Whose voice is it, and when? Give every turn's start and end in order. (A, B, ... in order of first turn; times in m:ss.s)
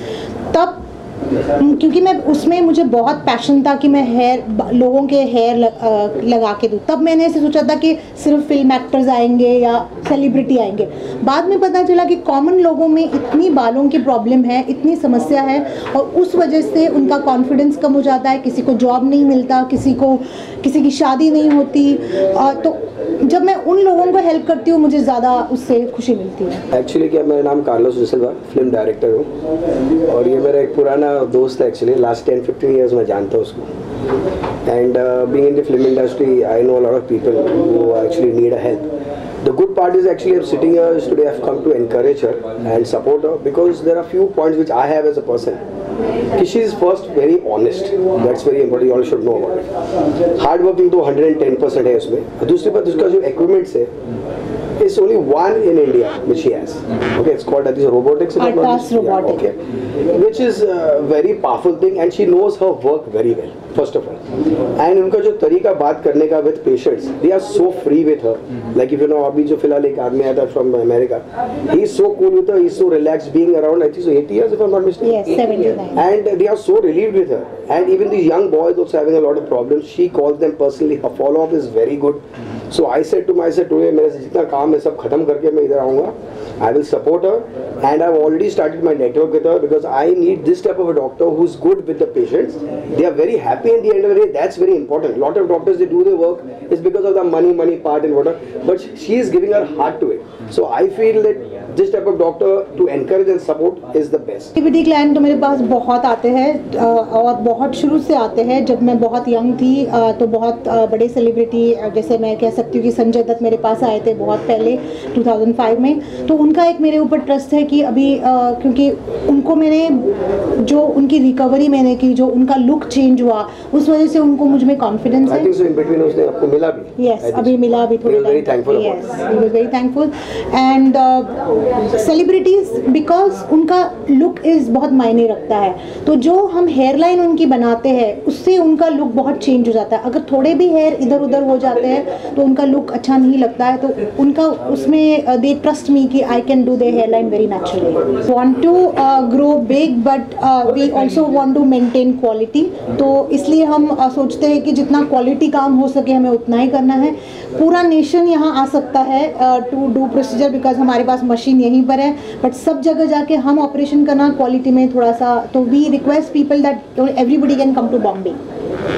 0:00.5-0:00.8 A
0:01.6-0:26.6 A
0:26.7-0:29.3 B
0:30.1-0:33.7 B
0:34.6-0:38.8 B
0:39.4-0:45.6 B
0:46.4-0:49.7 B
0:50.4-0:53.9 B
0:54.8-0:59.6 B
0:58.4-0:59.5 A
1:00.1-1:04.2 B
1:04.8-1:15.4 B
1:15.0-1:16.0 A
1:15.9-1:44.5 B
1:44.6-2:05.5 A
2:05.3-2:09.0 B
2:07.0-2:48.4 A